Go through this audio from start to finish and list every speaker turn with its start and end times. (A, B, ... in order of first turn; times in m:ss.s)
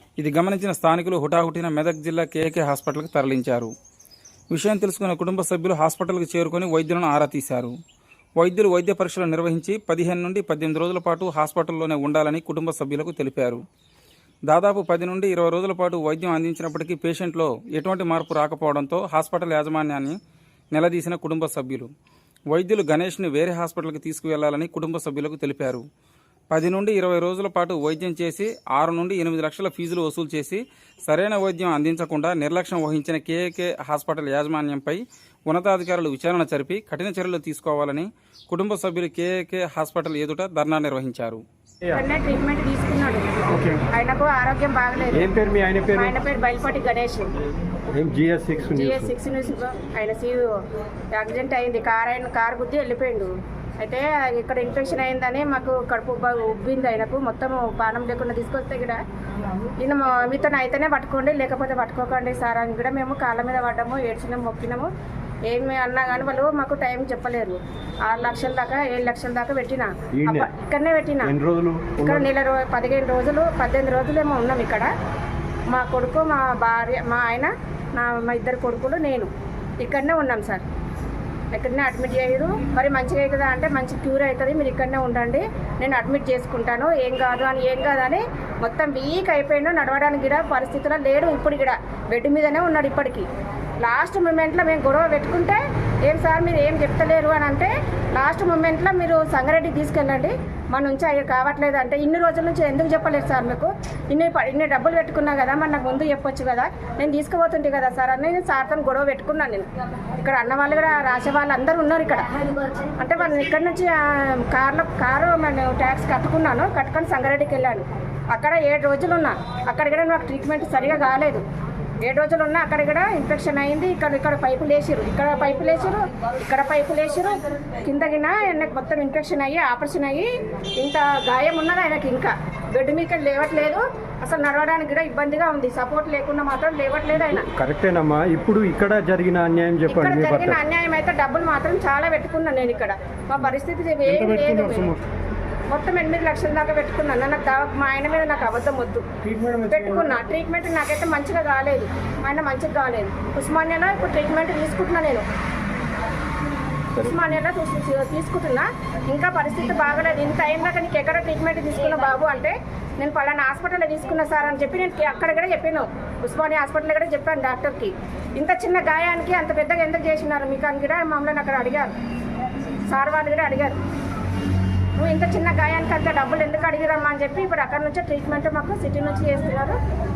0:00.2-0:03.7 A
0:04.5-0:07.7 A
0:08.4-0:13.6 A
0:14.5-0:20.2 A
0:20.7-0:21.9 A
0:22.5-0:25.8 A
0:26.5-0:41.4 A
0:41.9-0:43.3 B
0:43.5-0:43.8 C
0:43.9-0:45.3 B
0:45.1-0:46.1 C
0:45.9-0:47.3 B
0:47.9-0:49.1 C
0:48.8-0:50.5 B
0:51.1-0:59.0 B
0:59.8-1:04.9 B
1:05.5-1:11.3 B
1:10.2-1:10.5 C
1:11.2-1:12.3 C
1:12.0-1:14.9 B
1:15.7-1:19.3 B
1:19.8-1:20.6 B
1:21.5-1:33.3 B
1:33.8-2:01.4 B
2:02.0-2:10.3 B
2:10.8-2:17.5 B
2:17.2-2:20.6 C
2:19.9-2:24.9 B
2:24.1-2:25.0 C
2:25.7-2:29.0 B
2:29.2-2:30.2 C
2:29.7-2:35.2 B
2:37.0-2:51.9 B
2:52.9-2:53.8 B
2:55.0-2:59.8 B